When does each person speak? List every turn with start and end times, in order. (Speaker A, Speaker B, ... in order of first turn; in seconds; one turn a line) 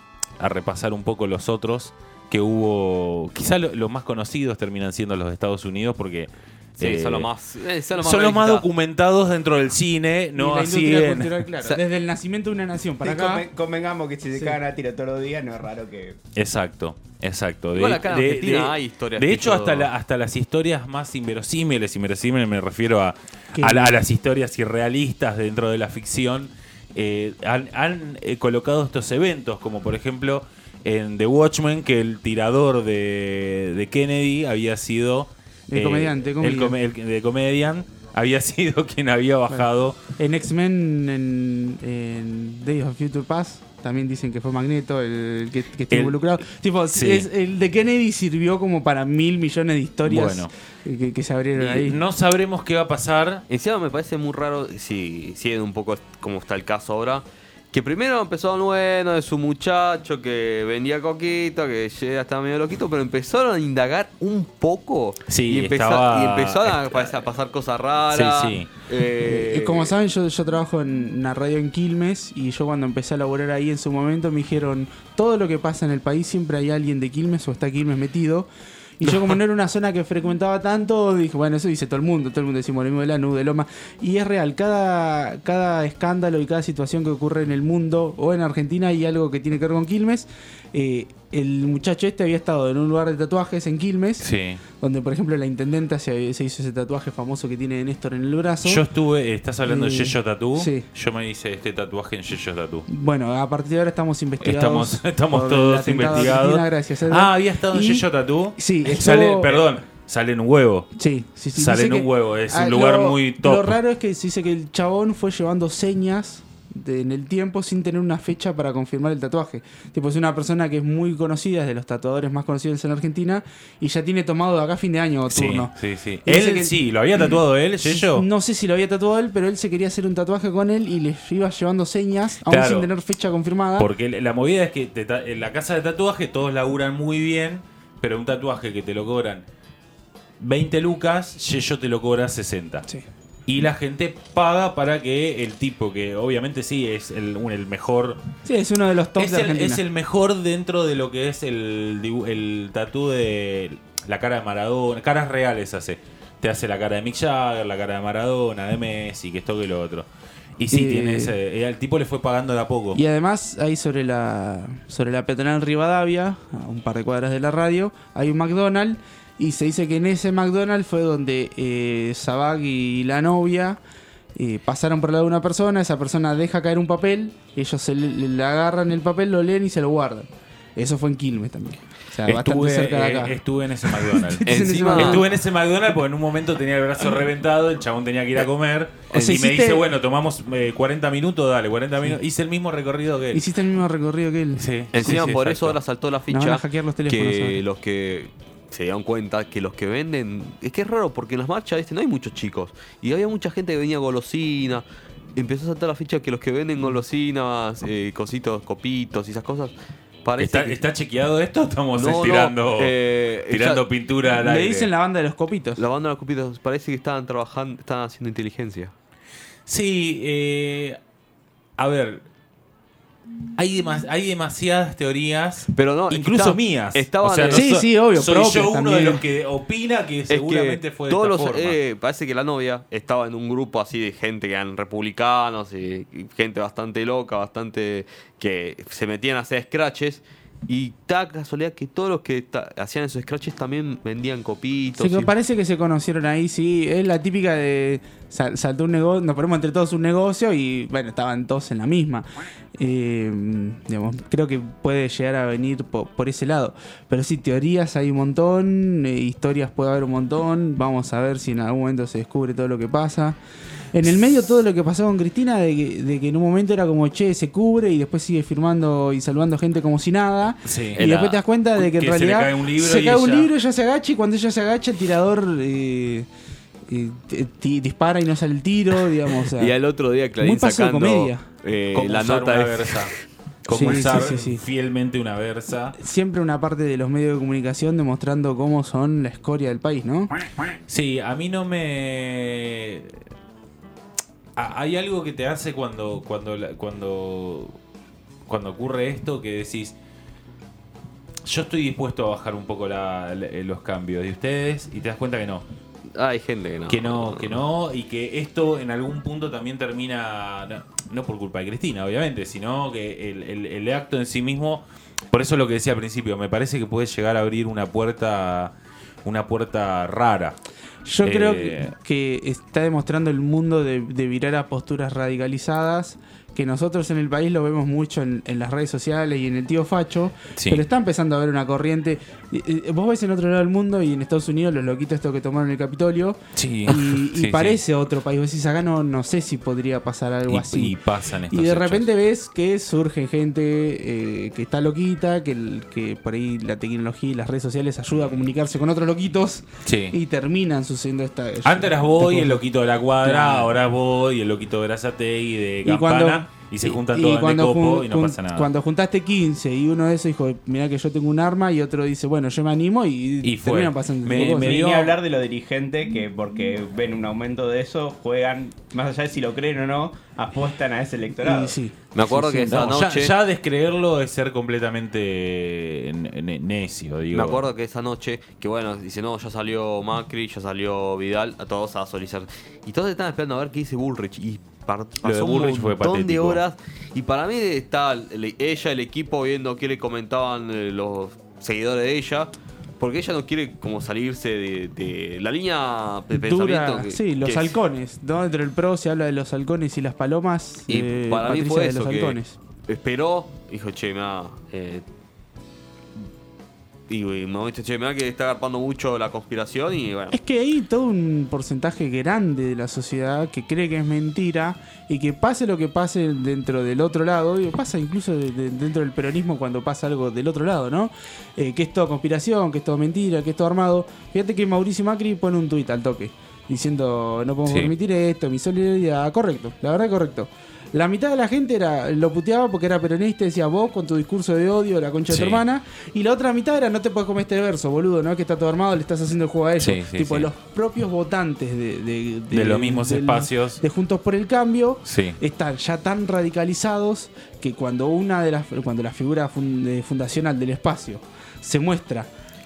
Speaker A: 0.4-7.3
Speaker B: 6.8-8.7
Speaker A: 8.0-11.5
Speaker C: 10.4-13.5
Speaker D: 13.0-16.2
Speaker A: 16.4-40.0
Speaker B: 17.7-19.9
Speaker C: 23.6-24.0
Speaker C: 35.7-36.8
Speaker C: 40.2-52.0
Speaker A: 45.9-46.2
Speaker A: 46.9-47.3
Speaker A: 50.1-50.5
Speaker A: 51.6-53.4
Speaker B: 53.5-70.0
Speaker A: 65.3-67.2
Speaker A: 68.1-68.7
Speaker C: 69.2-78.5
Speaker C: 79.0-98.8
Speaker A: 94.2-94.6
Speaker A: 98.6-102.9
Speaker C: 99.7-100.9
Speaker C: 102.9-109.6
Speaker A: 104.4-110.9
Speaker C: 111.0-133.9
Speaker A: 111.5-113.8
Speaker A: 125.3-128.3
Speaker A: 132.5-132.9
Speaker A: 133.8-139.4
Speaker A: 140.4-142.9
Speaker A: 143.5-148.2
Speaker C: 148.4-149.8
Speaker A: 149.2-160.1
Speaker A: 160.6-163.0
Speaker C: 160.7-161.3
Speaker C: 162.9-173.8
Speaker C: 174.3-185.3
Speaker A: 182.2-193.4
Speaker B: 184.5-185.2
Speaker C: 189.1-189.9
Speaker C: 193.3-195.2
Speaker A: 194.6-195.8
Speaker B: 194.9-204.8
Speaker C: 196.3-197.6
Speaker B: 205.4-209.7
Speaker B: 210.2-210.8
Speaker A: 210.4-212.9
Speaker B: 211.9-213.8
Speaker A: 213.5-214.9
Speaker C: 214.3-215.8
Speaker B: 215.8-218.9
Speaker A: 219.7-221.0
Speaker A: 221.8-222.2
Speaker A: 223.6-231.8
Speaker B: 225.8-227.7
Speaker C: 227.5-229.2
Speaker B: 230.3-245.3
Speaker C: 245.0-263.4
Speaker C: 263.9-276.3
Speaker A: 270.6-271.2
Speaker B: 271.0-271.4
Speaker A: 271.8-273.5
Speaker C: 276.9-279.7
Speaker B: 279.5-283.1
Speaker C: 280.4-281.4
Speaker A: 281.9-283.1
Speaker A: 283.7-286.0
Speaker B: 283.7-284.4
Speaker C: 283.7-284.6
Speaker C: 286.0-290.3
Speaker A: 290.9-293.2
Speaker A: 294.6-297.8
Speaker A: 298.5-300.0
Speaker A: 301.4-305.6
Speaker B: 306.1-307.6
Speaker A: 306.9-320.6
Speaker C: 321.1-341.0
Speaker A: 321.2-321.9
Speaker A: 330.6-330.8
Speaker A: 336.5-337.8
Speaker A: 340.5-342.1
Speaker C: 341.5-352.6
Speaker A: 349.8-350.2
Speaker A: 351.6-358.7
Speaker C: 353.2-353.8
Speaker C: 355.8-364.8
Speaker A: 363.4-365.2
Speaker D: 364.4-371.8
Speaker C: 371.4-372.9
Speaker B: 372.1-373.4
Speaker A: 372.7-377.6
Speaker B: 377.3-397.8
Speaker A: 385.2-386.6
Speaker C: 396.3-402.6
Speaker B: 400.9-405.0
Speaker B: 407.1-410.4
Speaker C: 410.3-452.3
Speaker A: 427.7-427.9
Speaker A: 435.3-435.6
Speaker A: 439.8-440.5
Speaker A: 442.5-443.8
Speaker A: 445.1-445.4